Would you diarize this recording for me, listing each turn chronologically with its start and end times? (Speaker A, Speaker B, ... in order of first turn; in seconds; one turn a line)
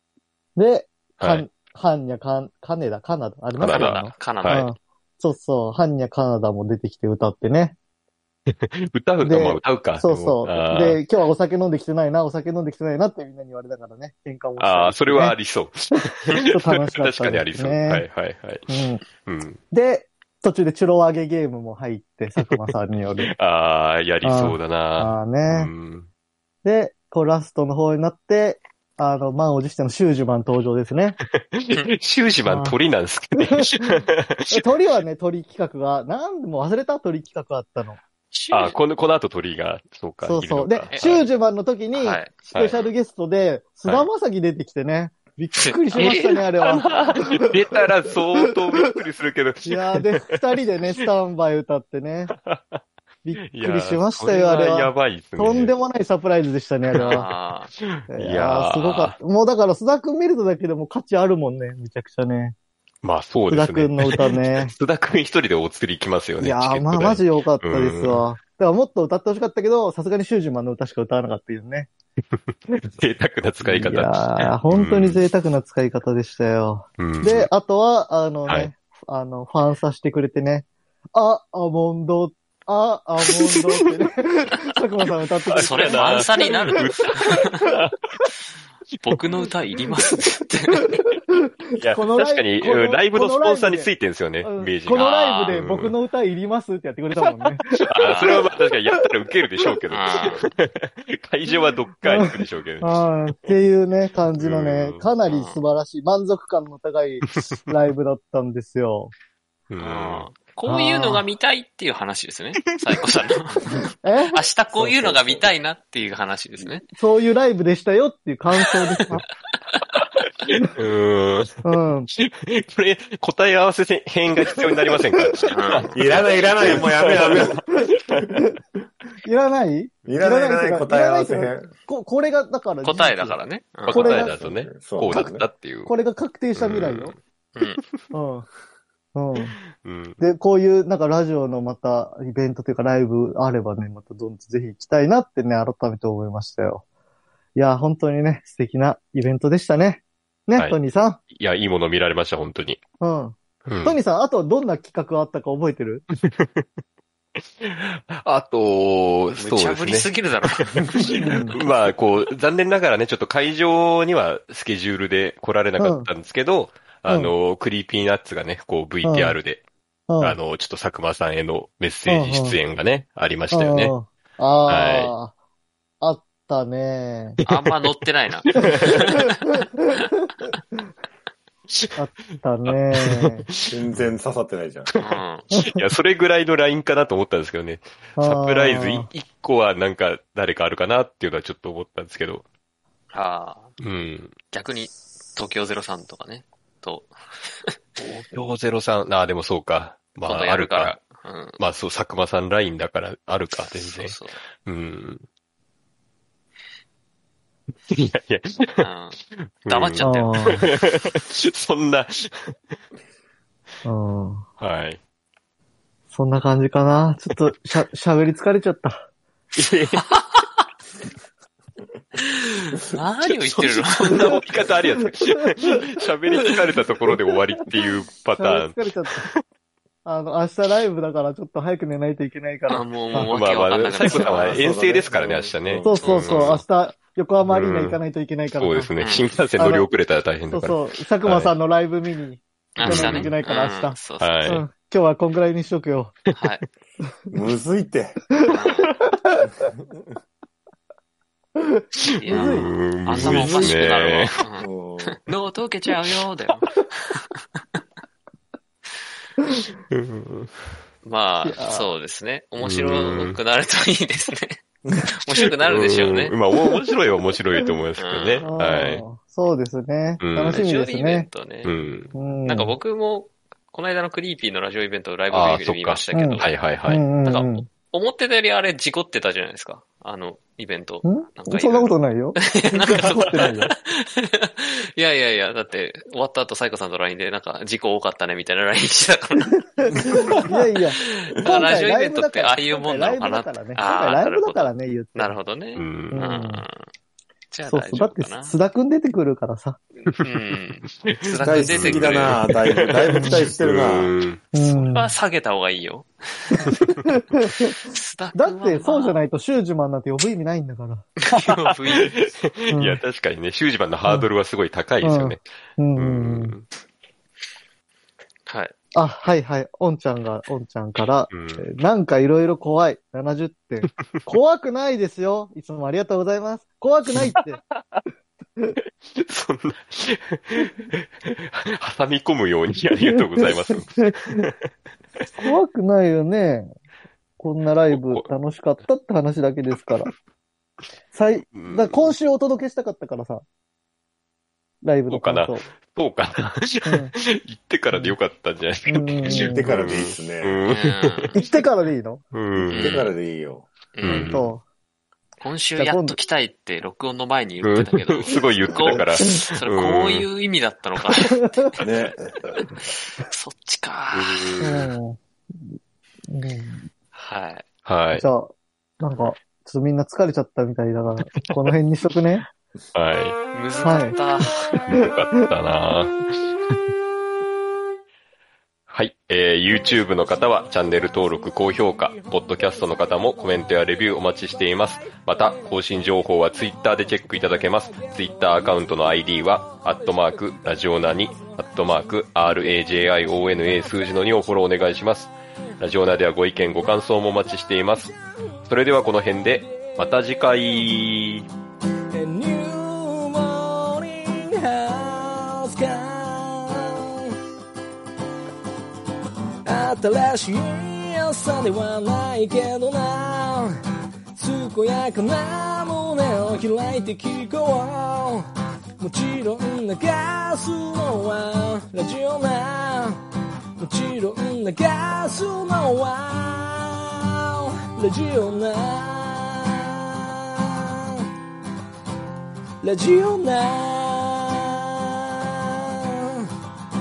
Speaker A: 0.6-7.8
Speaker B: 1.2-1.4
Speaker B: 3.6-4.7
Speaker C: 3.7-4.7
Speaker B: 8.5-11.0
Speaker A: 9.2-15.4
Speaker B: 14.6-19.6
Speaker A: 15.9-18.1
Speaker A: 18.7-19.0
Speaker A: 19.7-23.3
Speaker B: 23.3-26.1
Speaker A: 24.2-25.7
Speaker A: 26.6-31.2
Speaker B: 31.5-34.6
Speaker A: 32.4-32.8
Speaker A: 33.4-38.0
Speaker C: 38.3-38.8
Speaker B: 38.5-41.2
Speaker A: 40.2-47.7
Speaker C: 40.9-41.2
Speaker C: 41.9-42.9
Speaker B: 42.5-42.8
Speaker C: 45.6-47.2
Speaker B: 46.0-50.2
Speaker A: 49.6-52.3
Speaker B: 52.3-52.8
Speaker A: 53.2-57.3
Speaker B: 53.5-55.7
Speaker B: 56.9-59.1
Speaker C: 57.0-57.7
Speaker A: 58.1-62.5
Speaker B: 63.0-68.2
Speaker A: 63.5-64.7
Speaker A: 66.4-71.9
Speaker B: 72.7-75.2
Speaker A: 73.6-86.9
Speaker B: 77.0-77.5
Speaker B: 85.5-87.9
Speaker C: 85.5-87.6
Speaker C: 89.0-90.9
Speaker A: 90.9-99.0
Speaker B: 91.8-95.9
Speaker C: 95.0-95.5
Speaker B: 97.1-102.9
Speaker C: 98.0-98.5
Speaker C: 99.9-100.5
Speaker A: 102.0-109.1
Speaker B: 104.3-105.1
Speaker C: 105.2-105.6
Speaker B: 109.7-110.3
Speaker C: 109.8-113.8
Speaker A: 110.7-111.2
Speaker A: 114.0-115.4
Speaker C: 114.3-116.8
Speaker A: 116.9-119.3
Speaker B: 120.8-128.2
Speaker A: 121.6-122.1
Speaker C: 125.5-126.0
Speaker D: 125.9-127.6
Speaker A: 127.7-128.5
Speaker A: 129.2-134.5
Speaker D: 130.1-131.7
Speaker C: 132.8-134.1
Speaker B: 133.8-135.9
Speaker D: 134.1-135.4
Speaker A: 135.8-137.1
Speaker B: 136.6-138.0
Speaker A: 138.1-138.5
Speaker A: 139.1-139.6
Speaker B: 139.7-140.2
Speaker A: 140.2-146.8
Speaker A: 147.6-151.2
Speaker B: 151.3-152.8
Speaker A: 153.0-156.0
Speaker B: 153.7-154.0
Speaker B: 156.2-156.6
Speaker B: 157.6-160.1
Speaker C: 159.4-161.6
Speaker A: 161.2-161.6
Speaker B: 161.5-169.6
Speaker A: 165.8-166.1
Speaker A: 167.1-167.3
Speaker A: 169.0-169.4
Speaker A: 170.1-170.4
Speaker B: 170.2-173.9
Speaker A: 172.1-172.6
Speaker A: 173.5-175.3
Speaker B: 174.7-175.1
Speaker A: 176.0-177.4
Speaker C: 177.4-179.3
Speaker B: 178.4-179.1
Speaker A: 181.9-183.4
Speaker B: 182.7-184.1
Speaker D: 183.7-184.9
Speaker B: 184.9-192.4
Speaker C: 185.0-185.5
Speaker A: 185.5-185.8
Speaker A: 188.2-189.1
Speaker C: 193.1-193.7
Speaker B: 193.8-194.3
Speaker C: 194.5-197.1
Speaker B: 198.0-201.0
Speaker C: 200.2-201.6
Speaker B: 201.6-205.2
Speaker C: 203.7-204.4
Speaker B: 207.9-212.5
Speaker C: 208.8-210.6
Speaker A: 210.0-210.7
Speaker A: 213.8-214.4
Speaker B: 214.6-215.0
Speaker A: 216.1-219.0
Speaker B: 219.6-220.1
Speaker C: 220.1-220.4
Speaker C: 222.3-224.4
Speaker B: 223.3-229.4
Speaker A: 228.3-229.3
Speaker A: 230.0-233.3
Speaker C: 232.7-234.7
Speaker B: 233.2-236.6
Speaker D: 234.1-236.1
Speaker A: 235.8-238.9
Speaker C: 235.9-236.6
Speaker B: 237.4-238.0
Speaker B: 238.6-241.5
Speaker C: 239.0-239.3
Speaker A: 239.6-239.9
Speaker A: 240.5-246.2
Speaker C: 242.8-244.5
Speaker B: 242.8-243.3
Speaker B: 244.2-244.6
Speaker C: 246.3-246.6
Speaker D: 247.3-248.2
Speaker A: 248.4-249.4
Speaker C: 248.5-248.9
Speaker A: 251.7-253.7
Speaker C: 252.2-257.2
Speaker B: 252.3-254.4
Speaker D: 254.6-255.2
Speaker B: 259.9-260.5
Speaker C: 261.0-264.6
Speaker A: 261.4-261.9
Speaker B: 262.6-263.4
Speaker C: 265.2-266.4
Speaker B: 265.6-269.0
Speaker C: 268.0-268.4
Speaker A: 268.4-271.3
Speaker B: 270.2-270.6
Speaker C: 270.5-271.7
Speaker B: 271.6-272.1
Speaker A: 272.1-272.7
Speaker C: 272.4-276.6
Speaker B: 275.3-277.0
Speaker A: 276.1-277.7
Speaker C: 277.2-290.0
Speaker A: 281.0-283.7
Speaker A: 289.8-295.4
Speaker C: 291.3-296.8
Speaker B: 295.8-296.3
Speaker A: 296.1-296.6
Speaker C: 297.5-298.6
Speaker A: 297.6-299.8
Speaker C: 300.1-302.4
Speaker B: 301.0-304.4
Speaker D: 301.4-304.1
Speaker A: 303.1-303.5
Speaker A: 304.5-305.1
Speaker C: 304.6-306.7
Speaker A: 306.6-307.8
Speaker C: 307.9-309.2
Speaker A: 308.3-311.0
Speaker C: 311.3-312.3
Speaker B: 311.3-315.4
Speaker A: 312.7-313.0
Speaker A: 315.0-316.5
Speaker B: 316.0-316.6
Speaker C: 318.5-318.7
Speaker A: 318.9-327.6
Speaker B: 321.3-321.7
Speaker B: 327.4-328.0
Speaker B: 329.1-334.7
Speaker A: 332.9-334.4
Speaker A: 335.4-336.7
Speaker A: 337.4-340.1
Speaker B: 337.9-338.2
Speaker A: 341.1-343.4
Speaker B: 341.5-342.1
Speaker A: 344.8-345.7
Speaker B: 345.1-351.5
Speaker A: 346.8-347.1
Speaker A: 347.9-348.2
Speaker A: 348.9-349.8
Speaker D: 349.2-350.6
Speaker C: 350.6-351.4
Speaker A: 351.3-352.3
Speaker B: 352.3-353.0
Speaker D: 352.6-353.7
Speaker C: 352.6-353.1
Speaker C: 353.9-354.3
Speaker B: 354.0-354.5
Speaker A: 354.0-354.6
Speaker C: 355.4-361.9
Speaker A: 355.8-356.2
Speaker B: 357.6-360.3
Speaker D: 358.6-358.9
Speaker A: 358.9-359.4
Speaker D: 361.8-362.6
Speaker C: 363.2-364.6
Speaker B: 364.1-364.9
Speaker A: 364.6-365.2
Speaker A: 366.3-366.9
Speaker C: 367.1-367.6
Speaker B: 367.8-368.2
Speaker A: 368.1-372.5
Speaker B: 372.9-373.4
Speaker C: 373.5-374.6
Speaker A: 373.8-374.2
Speaker A: 374.8-375.5
Speaker B: 374.9-376.7
Speaker B: 378.9-401.5
Speaker E: 387.9-388.1
Speaker E: 402.1-407.4
Speaker E: 409.6-413.8
Speaker E: 414.3-418.5
Speaker E: 419.0-423.2
Speaker E: 423.8-431.2
Speaker E: 432.8-436.4